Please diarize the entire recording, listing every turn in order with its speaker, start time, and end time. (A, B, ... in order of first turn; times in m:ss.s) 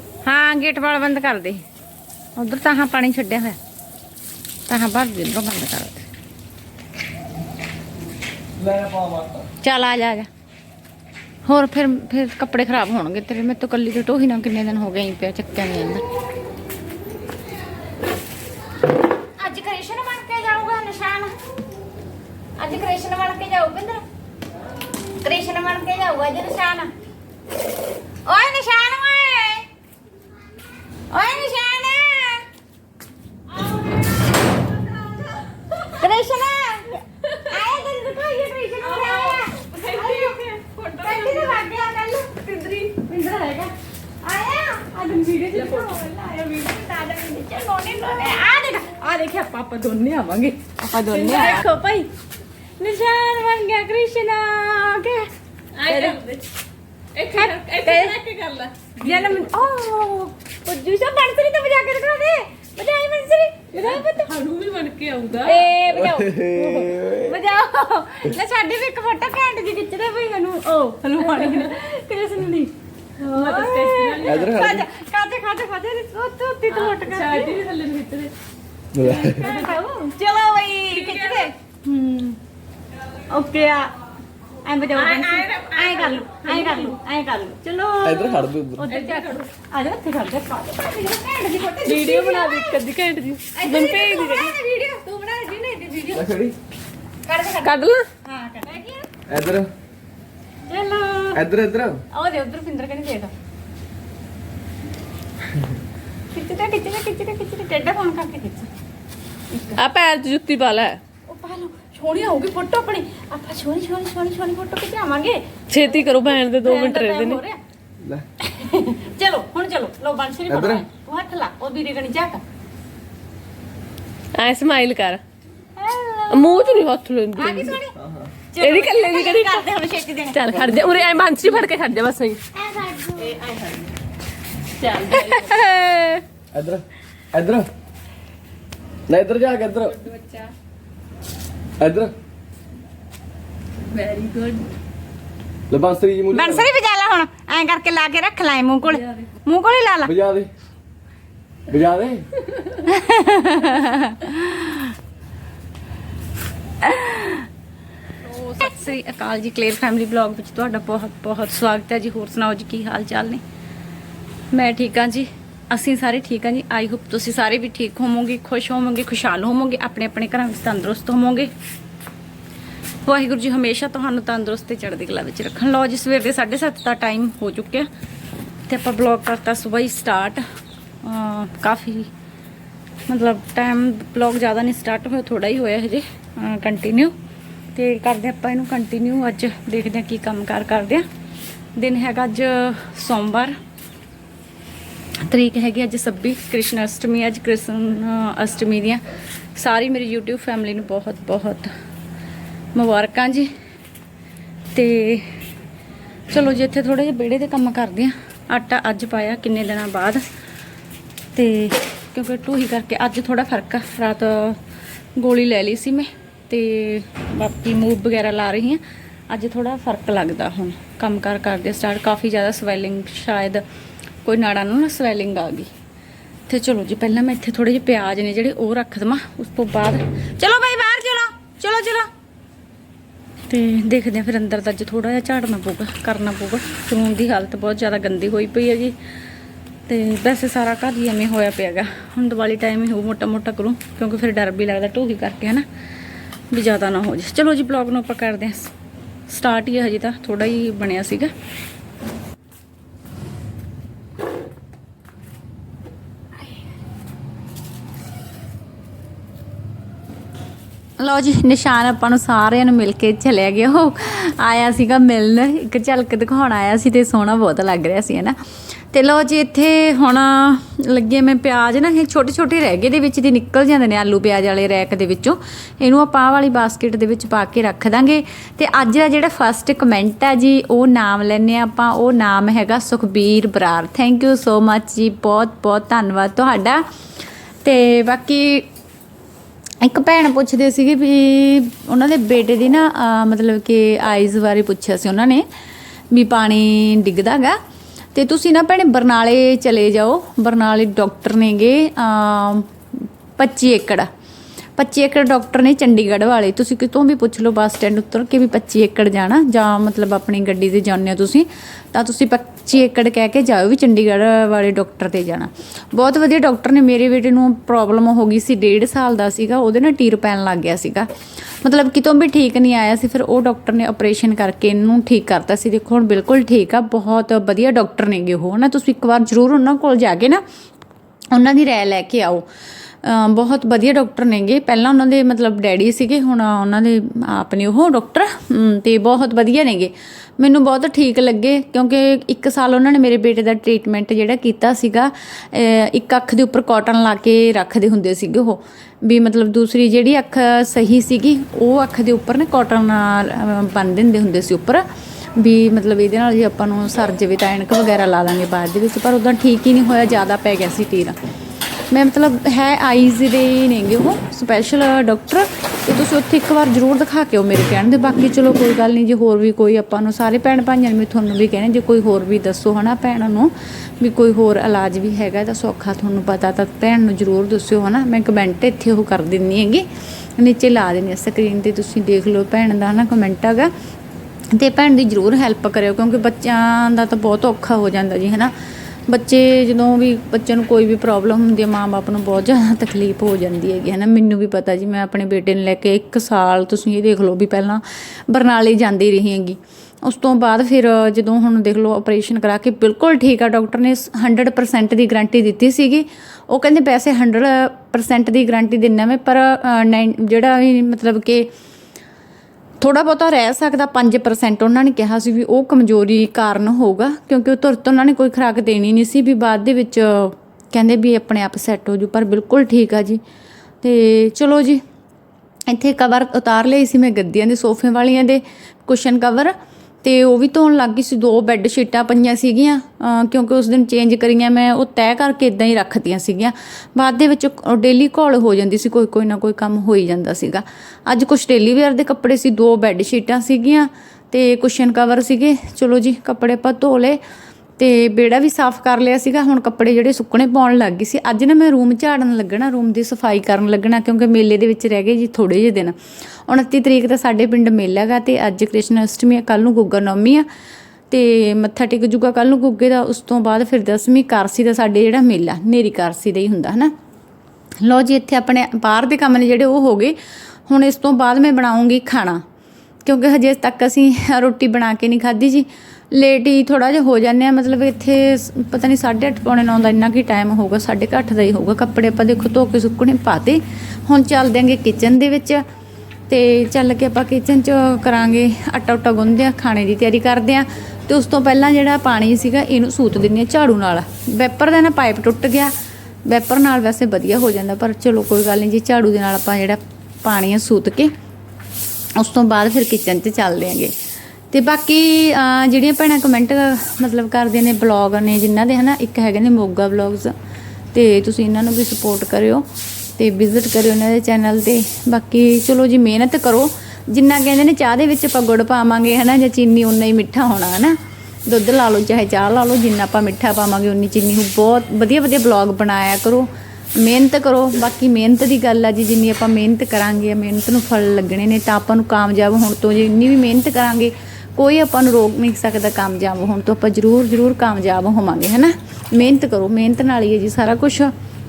0:00.2-0:01.6 A
0:02.4-0:03.6 A
0:04.7-0:06.1 A
0:08.6-0:09.4 B
0:09.6-0:10.3 A
0:11.4-0:16.0 A
0:19.3-0:21.3 A
0:22.6-0:24.0 A
0:25.2-0:26.9 A
0:28.2-0:29.6 A
0:31.1-0:32.4 A
0:33.6-0:52.1 A
0:38.8-0:41.6 C
0:45.5-0:45.9 C
0:51.0-0:51.6 C
0:52.8-0:55.3 A
0:55.8-0:56.4 C
0:55.8-0:56.2 A
0:57.2-0:59.4 C
0:57.2-0:58.2 A
0:59.0-1:04.3 A
1:03.7-1:05.6 C
1:05.4-1:17.6 A
1:06.1-1:07.1 B
1:13.3-1:14.4 C
1:14.2-1:14.9 B
1:16.7-1:18.3 C
1:18.9-1:19.5 B
1:19.1-1:22.4 A
1:20.9-1:21.5 C
1:23.3-1:23.9 A
1:24.6-1:32.8 A
1:24.9-1:26.9 C
1:28.0-1:28.9 B
1:28.9-1:29.4 C
1:31.8-1:34.5 C
1:33.5-1:36.3 A
1:36.1-1:36.6 B
1:37.3-1:39.0 A
1:37.6-1:38.1 C
1:39.3-1:39.7 B
1:40.7-1:41.4 A
1:41.3-1:42.0 B
1:42.1-1:43.3 A
1:46.3-1:48.7 A
1:49.5-1:49.8 A
1:49.8-1:51.0 C
1:51.3-1:57.6 A
1:55.7-1:57.4 C
1:58.4-2:02.4 A
2:00.5-2:00.8 B
2:04.3-2:05.2 C
2:05.8-2:06.7 A
2:06.3-2:07.8 C
2:07.3-2:07.9 A
2:08.0-2:08.3 B
2:08.5-2:10.8 A
2:08.6-2:09.6 C
2:10.3-2:12.4 C
2:12.5-2:13.7 A
2:14.8-2:16.2 C
2:16.5-2:17.7 B
2:19.1-2:20.0 B
2:21.8-2:22.1 B
2:24.0-2:24.6 C
2:25.7-2:26.7 B
2:26.3-2:30.1 A
2:30.0-2:30.5 B
2:31.7-2:32.3 B
2:32.8-2:34.9 A
2:36.8-2:37.5 A
2:38.2-2:43.4 A
2:44.5-2:51.5 A
2:53.0-2:57.9 A
2:58.7-3:00.4 A
3:01.0-3:02.1 A
3:03.1-3:07.1 A
3:07.7-3:11.0 A
3:11.8-3:13.5 A
3:15.2-3:19.0 A
3:19.5-3:21.7 A
3:22.7-3:23.5 A
3:24.7-3:25.3 A
3:26.3-3:30.2 A
3:31.3-3:34.6 A
3:35.2-3:43.6 A
3:44.2-3:45.7 A
3:46.5-3:52.1 A
3:53.5-3:59.0 A
3:59.9-4:05.6 A
4:06.5-4:08.7 A
4:09.3-4:11.3 A
4:21.0-4:28.4 A
4:28.9-4:46.8 A
4:47.6-4:48.7 A
4:49.8-4:55.4 A
4:56.1-4:57.6 A
4:58.1-5:02.7 A
5:03.4-5:04.1 A
5:04.8-5:21.1 A
5:21.6-5:30.4 A
5:31.3-5:32.4 A
5:33.0-5:54.8 A
5:55.4-6:01.2 A
6:01.9-6:23.7 A
6:24.5-6:28.5 A
6:29.1-6:51.5 A
6:52.8-7:03.2 A
7:03.8-7:04.8 A
7:05.7-7:27.2 A
7:27.8-7:36.0 A
7:36.5-7:40.4 A
7:41.1-7:46.9 A
7:47.8-7:52.4 A
7:53.0-8:05.6 A
8:06.3-8:15.7 A
8:16.2-8:21.1 A
8:22.2-8:23.9 A
8:24.5-8:30.3 A
8:30.9-8:32.6 A
8:33.2-9:01.1 A